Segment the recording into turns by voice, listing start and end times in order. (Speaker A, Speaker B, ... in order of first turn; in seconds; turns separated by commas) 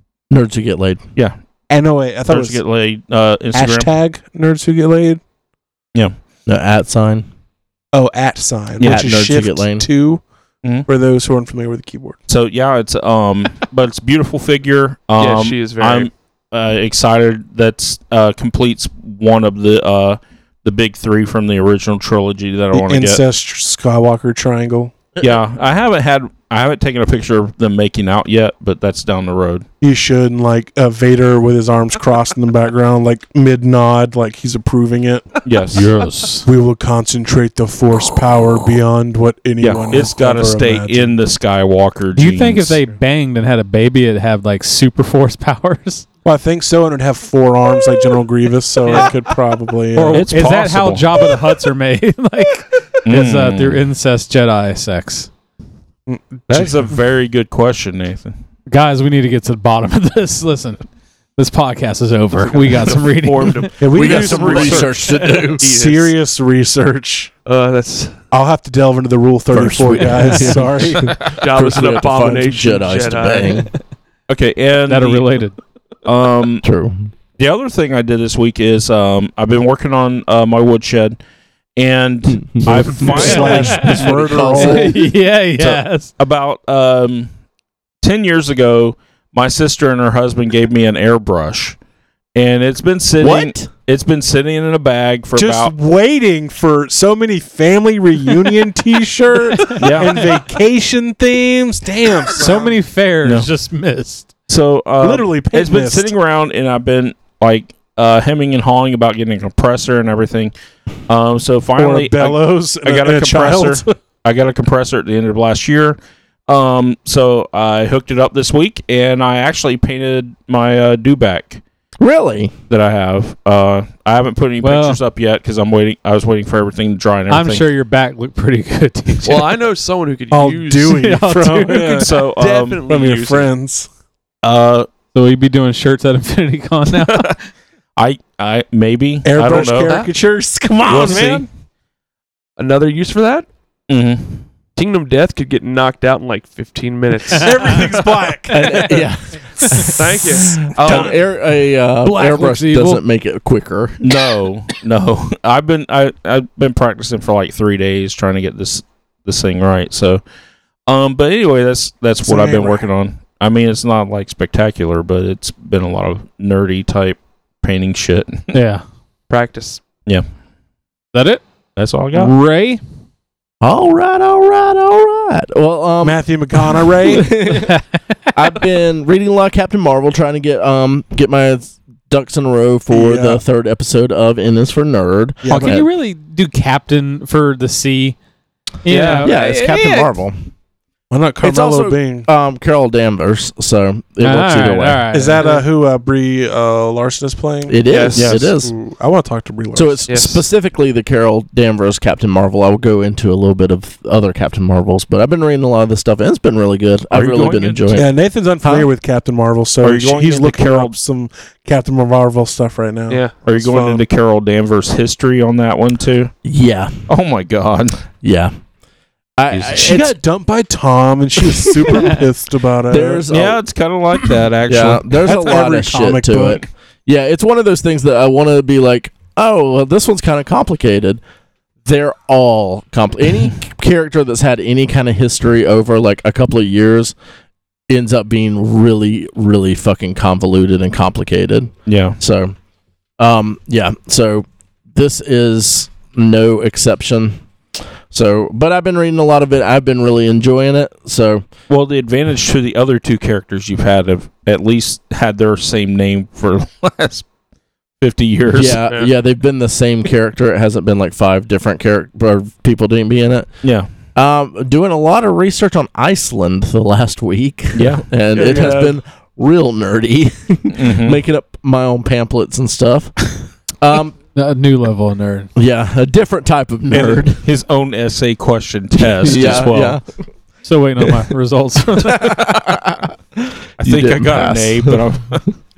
Speaker A: 0.3-1.0, Speaker B: 1.7-2.6, Speaker C: 2.3-3.9, Speaker B: 3.5-5.2, Speaker A: 6.5-7.3, Speaker B: 7.9-10.2, Speaker C: 8.8-9.1, Speaker A: 8.8-9.8, Speaker B: 10.8-12.2, Speaker C: 12.3-23.2, Speaker D: 15.2-16.1, Speaker B: 22.7-24.9, Speaker C: 25.2-29.6, Speaker B: 29.8-35.3, Speaker C: 35.4-35.9, Speaker E: 35.7-36.5, Speaker B: 36.4-41.1, Speaker C: 39.6-42.8, Speaker E: 42.1-46.0, Speaker B: 46.2-50.3, Speaker E: 49.9-55.3, Speaker C: 50.1-51.2, Speaker C: 53.0-53.8, Speaker B: 56.1-56.8, Speaker C: 56.5-58.4, Speaker E: 58.7-60.9, Speaker E: 61.4-63.9, Speaker D: 62.4-66.1, Speaker B: 63.8-67.3, Speaker A: 63.9-65.7, Speaker D: 67.5-68.2, Speaker B: 68.3-71.2, Speaker A: 69.5-73.7, Speaker D: 71.3-73.7, Speaker C: 74.3-75.3, Speaker E: 74.9-75.5, Speaker C: 76.0-76.6, Speaker A: 76.6-77.1, Speaker C: 77.4-81.2, Speaker C: 81.8-84.6, Speaker A: 82.5-84.9, Speaker B: 82.7-85.0, Speaker E: 83.2-86.1, Speaker C: 85.6-87.3, Speaker C: 88.0-91.8, Speaker C: 92.3-95.7, Speaker A: 93.2-93.7, Speaker B: 95.3-102.8, Speaker C: 99.8-100.2, Speaker E: 102.3-104.3, Speaker C: 104.5-110.5, Speaker B: 105.0-106.1, Speaker C: 111.1-121.6, Speaker B: 111.8-113.9, Speaker A: 122.0-122.5, Speaker C: 122.7-127.7, Speaker E: 124.6-125.0, Speaker E: 127.3-129.5, Speaker D: 129.2-131.1, Speaker B: 130.3-132.1, Speaker E: 130.9-132.0, Speaker D: 131.7-133.5, Speaker C: 131.8-132.8, Speaker B: 132.8-133.9, Speaker C: 134.4-134.9, Speaker E: 135.1-137.3, Speaker C: 137.9-139.9, Speaker B: 139.2-141.4, Speaker D: 139.8-140.1, Speaker C: 140.8-141.5, Speaker D: 142.6-143.5, Speaker C: 143.9-144.4, Speaker D: 144.8-147.9, Speaker B: 147.3-148.9, Speaker A: 148.5-154.0, Speaker D: 149.8-151.2, Speaker B: 150.8-151.1, Speaker E: 152.0-153.0, Speaker C: 154.0-160.2, Speaker C: 160.9-168.6, Speaker B: 162.2-162.9, Speaker E: 168.5-168.8, Speaker D: 169.3-169.8, Speaker E: 171.1-171.4, Speaker C: 171.8-172.3, Speaker E: 172.1-172.8, Speaker A: 173.6-176.2, Speaker B: 176.0-177.3, Speaker A: 177.0-177.8, Speaker E: 177.6-178.0, Speaker A: 178.3-185.8, Speaker B: 182.9-183.4, Speaker B: 185.4-185.8, Speaker E: 185.4-188.2, Speaker E: 188.8-190.1, Speaker D: 188.8-189.3, Speaker A: 189.2-190.3, Speaker B: 191.1-192.3, Speaker A: 191.4-195.0, Speaker E: 194.2-195.6, Speaker B: 195.1-197.8, Speaker A: 197.7-198.7, Speaker D: 197.9-198.3, Speaker C: 198.1-198.5, Speaker B: 198.6-200.0, Speaker A: 199.7-208.1, Speaker D: 200.1-200.4, Speaker C: 207.1-208.0, Speaker B: 207.9-214.0, Speaker A: 208.6-208.9, Speaker C: 209.8-210.9, Speaker D: 213.1-213.3, Speaker C: 213.4-216.3, Speaker A: 216.4-216.9, Speaker C: 217.1-218.0, Speaker A: 218.2-218.5, Speaker A: 219.4-220.2, Speaker B: 219.7-223.2, Speaker A: 222.9-223.6, Speaker C: 223.3-225.1, Speaker A: 224.7-231.2, Speaker B: 225.2-226.7, Speaker A: 231.8-237.1, Speaker A: 237.9-242.5, Speaker C: 241.9-242.2, Speaker A: 243.2-247.4, Speaker A: 248.1-251.4, Speaker C: 251.7-257.2, Speaker C: 258.0-258.8, Speaker A: 258.5-263.6, Speaker C: 263.6-263.9, Speaker A: 264.1-274.1, Speaker C: 267.7-268.9, Speaker D: 268.3-268.9, Speaker C: 270.7-271.2, Speaker E: 274.3-275.5, Speaker A: 275.6-277.4, Speaker C: 276.9-280.0, Speaker A: 279.2-280.0, Speaker E: 279.2-279.7, Speaker E: 280.6-282.5, Speaker A: 282.0-285.0, Speaker C: 283.8-285.5